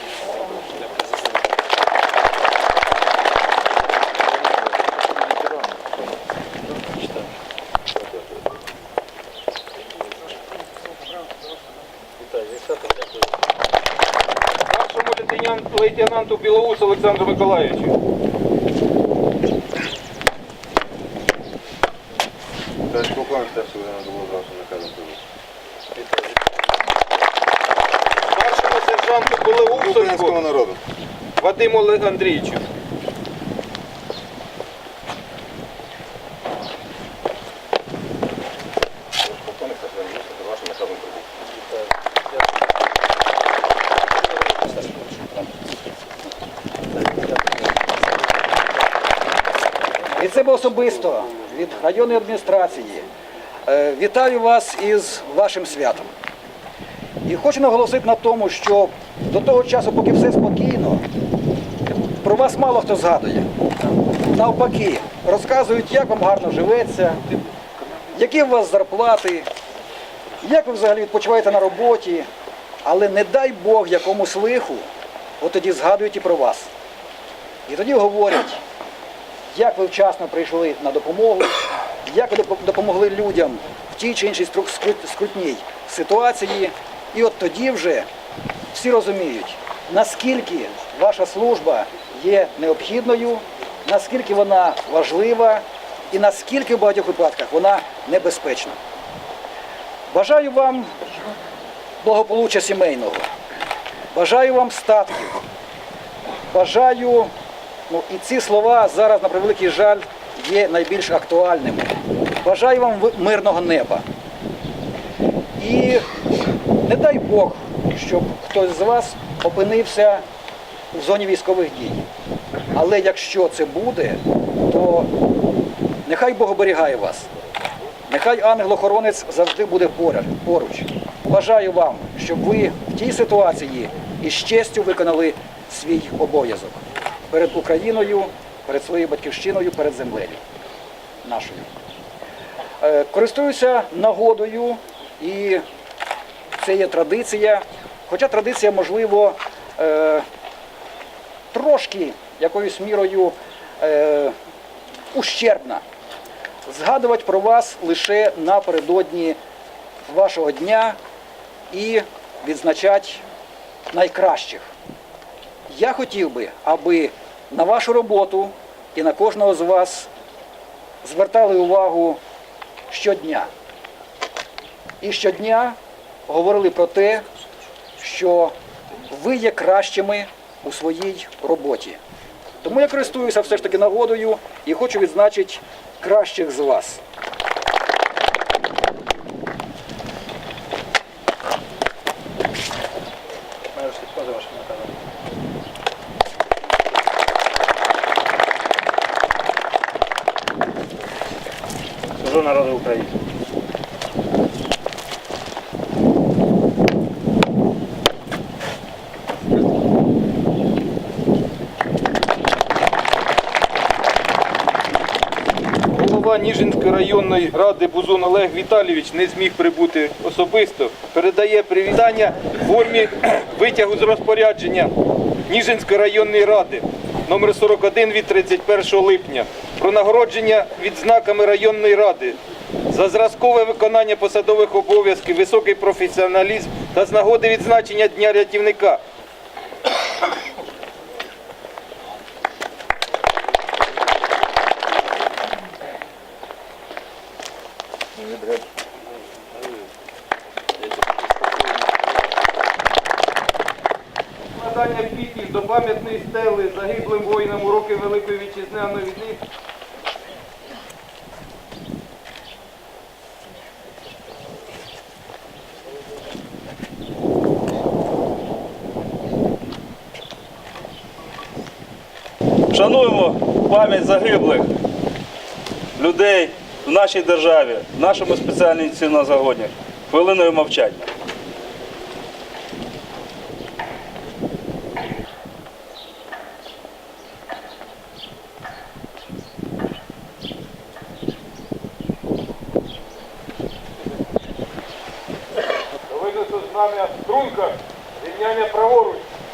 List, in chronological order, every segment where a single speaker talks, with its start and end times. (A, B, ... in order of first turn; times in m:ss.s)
0:14.7-0:18.0 A
0:22.9-0:25.2 B
0:28.3-0:30.4 A
0:30.0-0:30.8 B
0:31.4-0:32.6 A
0:39.3-0:41.2 B
0:50.1-0:53.1 C
0:53.7-0:56.1 C
0:57.3-1:01.0 C
1:02.2-1:03.5 C
1:04.3-1:07.2 C
1:08.1-1:09.5 C
1:10.4-1:12.3 C
1:12.8-1:14.9 C
1:15.4-1:16.7 C
1:17.7-1:18.6 C
1:19.5-1:28.1 C
1:28.7-1:38.8 C
1:40.1-1:40.9 C
1:42.0-1:43.3 C
1:44.1-1:45.4 C
1:46.5-1:47.3 C
1:47.9-1:51.9 C
1:52.4-1:54.0 C
1:55.6-1:56.0 C
1:56.8-2:00.2 C
2:00.9-2:02.1 C
2:02.7-2:05.1 C
2:06.0-2:07.3 C
2:08.1-2:20.4 C
2:21.2-2:21.7 C
2:22.8-2:25.6 C
2:26.6-2:30.2 C
2:31.5-2:34.4 C
2:35.1-2:35.8 C
2:36.7-2:39.4 C
2:40.1-2:41.0 C
2:41.7-2:43.2 C
2:43.9-2:44.7 C
2:45.7-2:50.1 C
2:51.0-2:52.2 C
2:52.9-2:53.5 C
2:55.0-2:55.8 C
2:56.3-2:57.2 C
2:58.0-2:58.5 C
2:59.1-3:02.0 C
3:02.6-3:07.0 C
3:13.7-3:14.9 D
3:22.2-3:23.2 D
3:35.9-3:44.9 A
3:45.5-3:52.4 A
3:52.9-3:59.0 A
4:14.5-4:19.4 A
4:32.7-4:34.7 E
4:36.0-4:41.1 E
4:56.1-4:59.3 A